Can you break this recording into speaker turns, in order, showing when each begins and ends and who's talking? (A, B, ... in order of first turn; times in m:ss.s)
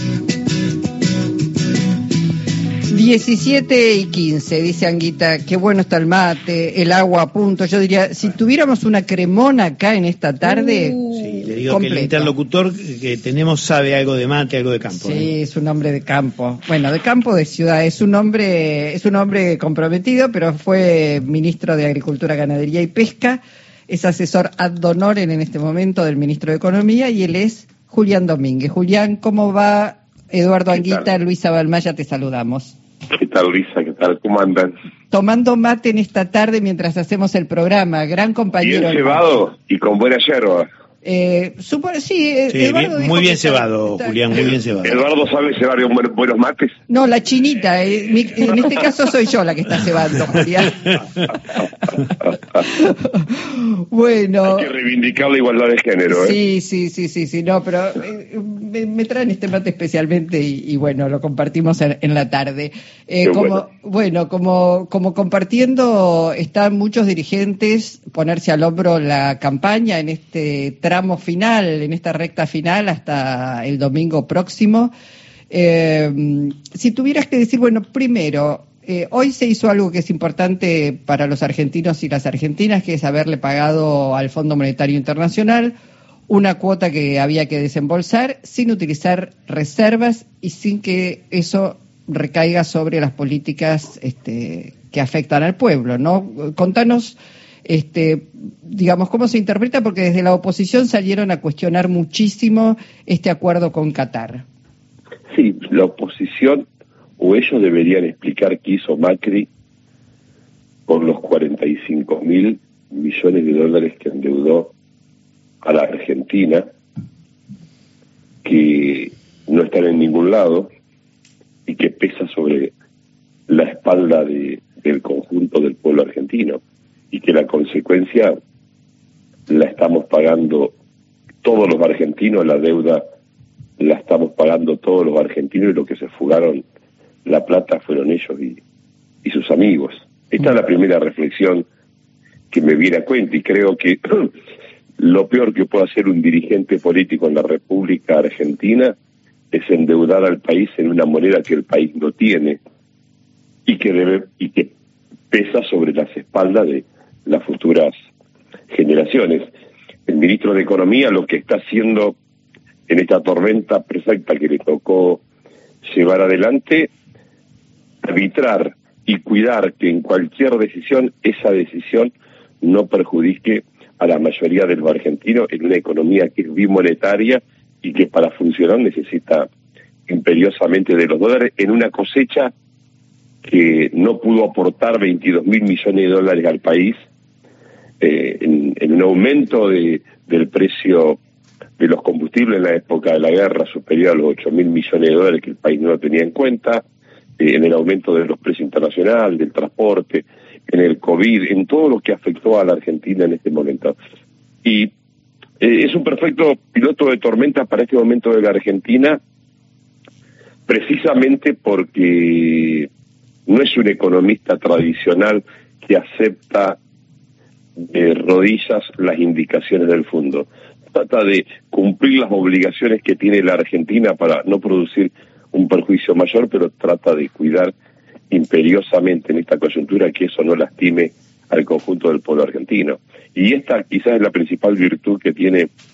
0:02.9-0:12.3 A
0:11.0-0:15.3 B
0:14.9-0:32.8 A
0:30.7-0:31.1 C
0:33.2-0:34.7 C
0:35.1-0:39.2 A
0:38.6-0:40.6 C
0:41.0-0:44.2 A
0:42.5-0:45.0 B
0:44.8-0:46.7 C
0:46.9-0:51.0 A
0:52.6-0:54.7 A
0:54.5-0:56.4 C
0:56.1-1:14.9 A
1:03.2-1:03.6 C
1:15.5-1:25.7 A
1:26.3-1:44.4 A
1:45.3-1:46.6 C
1:47.2-1:49.5 C
1:50.9-1:54.7 C
1:55.6-1:56.6 C
1:58.4-2:00.7 C
2:01.7-2:02.7 C
2:03.5-2:06.6 C
2:07.1-2:08.3 C
2:09.5-2:10.7 C
2:11.4-2:13.0 C
2:13.8-2:16.6 C
2:17.2-2:18.6 C
2:19.2-2:21.7 C
2:22.5-2:24.3 C
2:25.0-2:28.9 C
2:29.5-2:32.6 C
2:33.7-2:34.7 C
2:35.3-2:37.9 C
2:38.7-2:39.4 C
2:40.1-2:42.2 C
2:42.9-2:45.2 C
2:45.8-2:46.9 C
2:48.0-2:59.5 C
3:00.1-3:02.5 C
3:03.4-3:06.9 C
3:08.0-3:11.2 C
3:11.8-3:16.8 C
3:17.4-3:24.0 C
3:24.6-3:24.9 C
3:25.6-3:29.2 C
3:30.7-3:32.9 C
3:33.5-3:36.8 C
3:37.8-3:47.7 C
3:48.3-3:55.7 C